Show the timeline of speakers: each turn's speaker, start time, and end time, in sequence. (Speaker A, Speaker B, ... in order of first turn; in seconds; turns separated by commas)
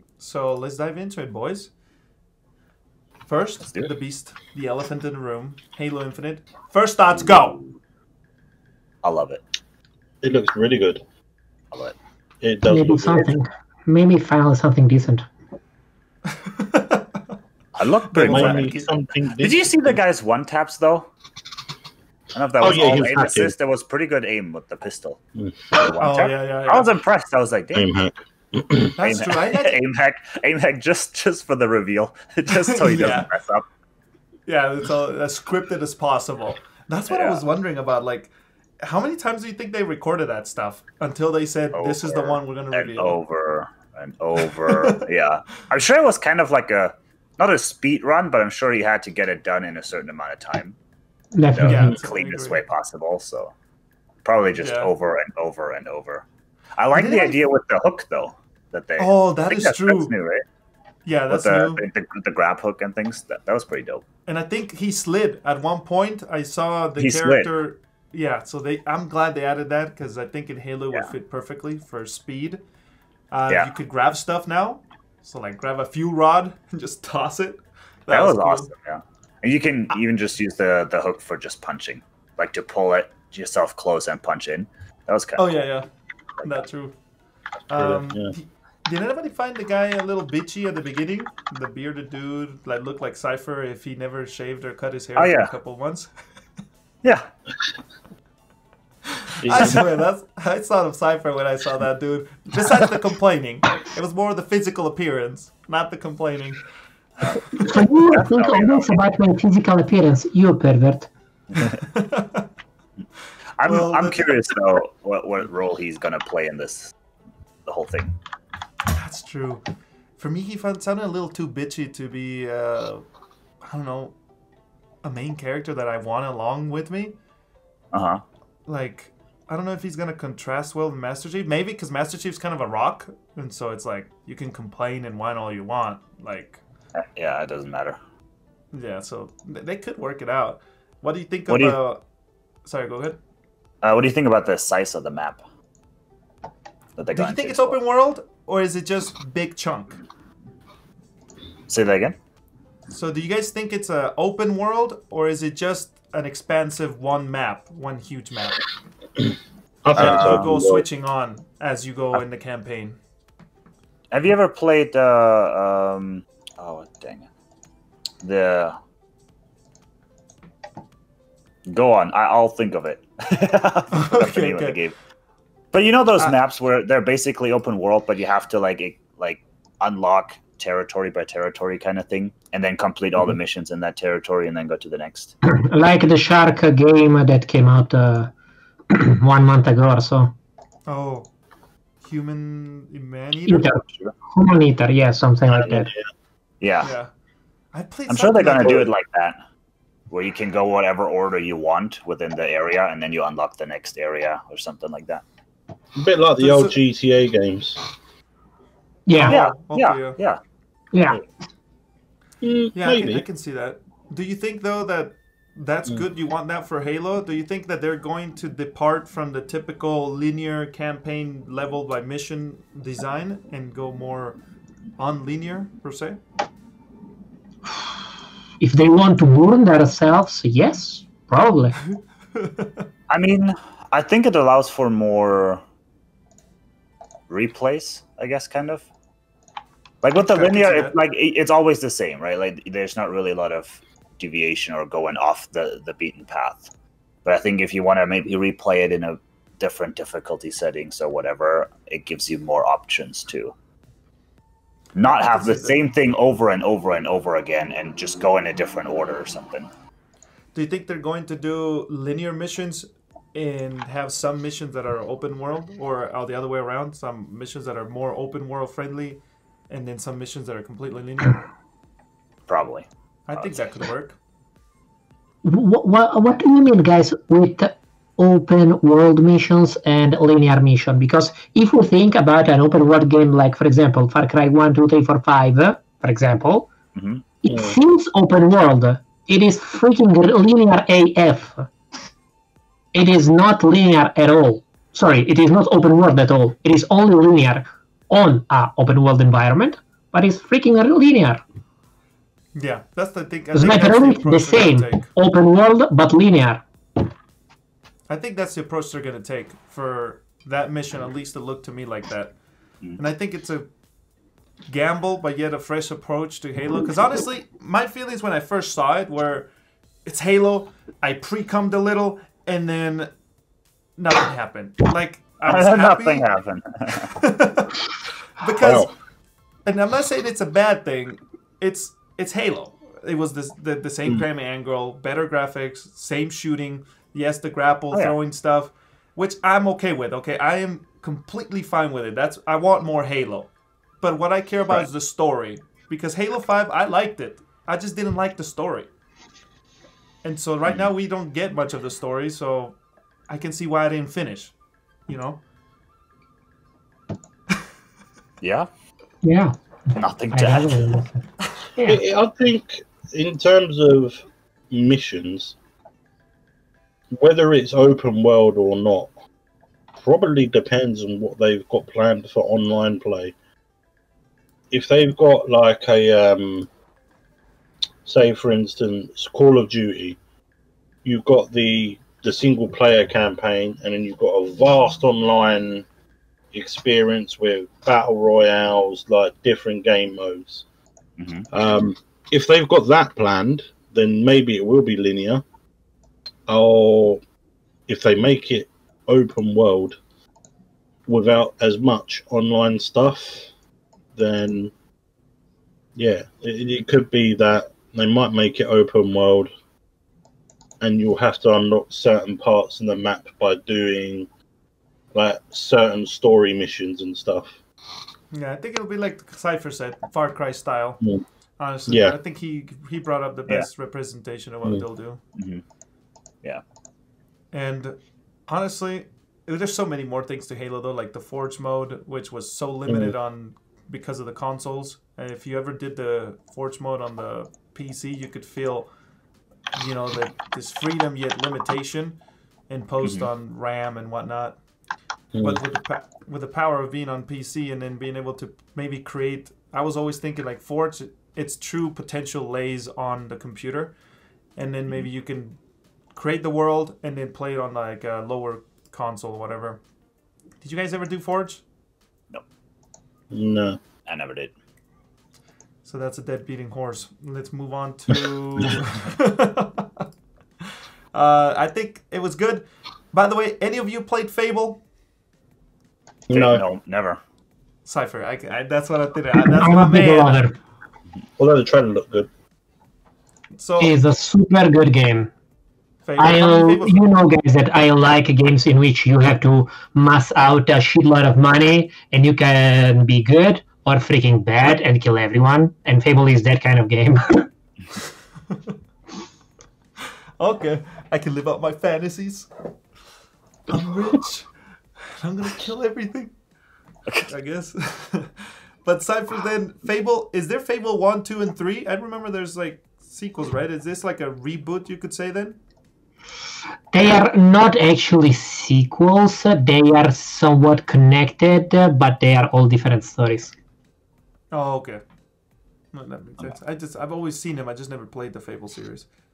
Speaker A: 0.2-1.7, Speaker A: 3.3-7.6, Speaker B: 7.2-7.7, Speaker B: 9.0-9.4, Speaker C: 10.2-11.0, Speaker C: 12.4-13.3, Speaker D: 12.7-15.3, Speaker A: 16.3-17.1, Speaker B: 17.8-18.7, Speaker A: 18.1-18.9, Speaker C: 18.2-20.0, Speaker B: 19.4-21.1, Speaker B: 22.3-25.2, Speaker C: 22.6-23.5, Speaker C: 25.4-25.7, Speaker B: 25.8-27.9, Speaker A: 26.0-26.9, Speaker C: 27.7-28.9, Speaker A: 29.0-29.8, Speaker B: 29.0-33.7, Speaker A: 32.5-33.3, Speaker A: 34.5-43.2, Speaker B: 37.1-37.4, Speaker B: 41.7-50.8, Speaker A: 44.5-45.0, Speaker D: 51.4-52.0, Speaker B: 51.5-53.5, Speaker A: 51.7-52.6, Speaker B: 54.2-56.2, Speaker A: 54.6-54.9, Speaker B: 56.8-60.4, Speaker A: 56.9-57.4, Speaker A: 59.0-60.1, Speaker A: 61.0-61.8, Speaker B: 61.3-64.0, Speaker A: 64.3-72.6, Speaker B: 67.0-67.5, Speaker A: 73.3-78.7, Speaker B: 78.1-85.5, Speaker A: 85.4-85.9, Speaker A: 86.4-87.0, Speaker A: 87.7-96.1, Speaker C: 87.8-88.3, Speaker B: 95.2-95.5, Speaker B: 97.0-97.3, Speaker A: 99.2-106.6, Speaker C: 99.4-99.9, Speaker D: 107.5-111.1, Speaker B: 107.6-108.9, Speaker B: 111.5-111.8, Speaker A: 111.8-112.5, Speaker B: 113.6-116.9, Speaker A: 113.7-114.3, Speaker B: 117.7-118.2, Speaker A: 118.9-119.6, Speaker A: 120.2-123.0, Speaker A: 123.6-124.2, Speaker A: 125.0-127.2, Speaker B: 127.9-128.2, Speaker A: 128.7-136.6, Speaker B: 137.0-138.0, Speaker A: 138.7-142.0, Speaker B: 141.5-141.8, Speaker A: 142.7-143.2, Speaker B: 143.8-145.4, Speaker B: 147.0-147.8, Speaker A: 147.2-150.0, Speaker B: 151.7-152.2, Speaker A: 152.9-158.6, Speaker C: 159.8-160.8, Speaker A: 159.9-163.0, Speaker B: 160.0-160.5, Speaker B: 164.1-167.3, Speaker B: 168.2-168.8, Speaker B: 171.7-175.0, Speaker A: 173.9-174.8, Speaker B: 175.7-185.3, Speaker D: 185.4-188.3, Speaker D: 188.9-190.3, Speaker A: 190.9-191.3, Speaker A: 192.0-193.8, Speaker D: 193.5-195.9, Speaker B: 193.8-194.1, Speaker C: 195.5-196.1, Speaker B: 196.6-196.9, Speaker A: 196.8-197.1, Speaker A: 197.7-198.9, Speaker B: 198.1-199.4, Speaker B: 200.1-205.2, Speaker C: 206.0-207.8, Speaker A: 206.4-206.8, Speaker D: 209.1-209.4, Speaker A: 209.1-210.2, Speaker B: 209.3-210.4, Speaker D: 210.9-211.2, Speaker C: 212.4-213.2, Speaker A: 212.8-224.4, Speaker A: 225.0-226.2, Speaker D: 228.6-231.8, Speaker A: 231.9-232.8, Speaker B: 233.1-235.6, Speaker B: 237.3-238.9, Speaker B: 240.0-246.7, Speaker A: 240.2-241.0, Speaker B: 247.2-253.5, Speaker B: 254.9-259.7, Speaker A: 255.1-255.9, Speaker A: 260.5-271.4, Speaker B: 272.5-272.9, Speaker A: 273.3-274.2, Speaker D: 275.4-286.7, Speaker B: 286.9-287.2, Speaker D: 287.4-291.7, Speaker C: 287.5-287.8, Speaker D: 292.9-301.4, Speaker A: 302.6-305.1, Speaker D: 303.5-306.6, Speaker A: 308.1-312.4, Speaker A: 313.0-313.7, Speaker A: 314.7-319.5, Speaker A: 320.1-323.1, Speaker A: 324.0-326.2, Speaker B: 325.5-327.1, Speaker A: 327.0-328.9, Speaker C: 328.6-328.9, Speaker A: 329.7-348.9, Speaker A: 350.2-352.8, Speaker A: 353.3-354.5, Speaker A: 355.1-355.4, Speaker B: 358.4-358.7, Speaker D: 359.2-362.0, Speaker B: 360.0-360.9, Speaker C: 361.9-365.6, Speaker C: 367.1-369.1, Speaker C: 370.0-373.3, Speaker C: 374.7-376.7, Speaker C: 378.1-380.2, Speaker C: 381.0-385.9, Speaker C: 386.5-390.6, Speaker B: 391.2-391.5, Speaker C: 391.5-395.4, Speaker C: 396.5-397.2, Speaker C: 397.9-400.0, Speaker C: 401.1-403.5, Speaker C: 404.2-404.7, Speaker C: 406.0-409.5, Speaker C: 410.8-414.3, Speaker C: 415.1-417.6, Speaker A: 418.3-421.0, Speaker A: 421.6-425.2, Speaker C: 421.9-422.1, Speaker B: 425.4-425.6, Speaker A: 427.5-428.0, Speaker A: 428.5-438.9, Speaker C: 432.9-433.1, Speaker A: 439.8-442.2, Speaker A: 442.7-444.6, Speaker B: 443.0-443.3, Speaker C: 445.3-445.6, Speaker A: 445.4-453.9, Speaker A: 454.6-455.6, Speaker A: 456.2-459.8, Speaker A: 460.6-461.6, Speaker C: 463.3-463.8, Speaker B: 464.1-464.5, Speaker A: 465.8-470.1, Speaker A: 471.1-474.8, Speaker C: 476.3-476.6, Speaker B: 476.3-477.2, Speaker A: 477.9-480.4, Speaker D: 479.4-480.6, Speaker C: 481.4-482.3, Speaker A: 483.6-484.0, Speaker D: 483.8-485.3, Speaker A: 486.1-487.0, Speaker D: 486.2-497.5, Speaker A: 500.4-502.5, Speaker A: 503.7-504.5, Speaker A: 505.2-506.3, Speaker A: 507.3-515.6, Speaker D: 516.9-523.5, Speaker A: 524.5-525.0, Speaker A: 525.9-529.1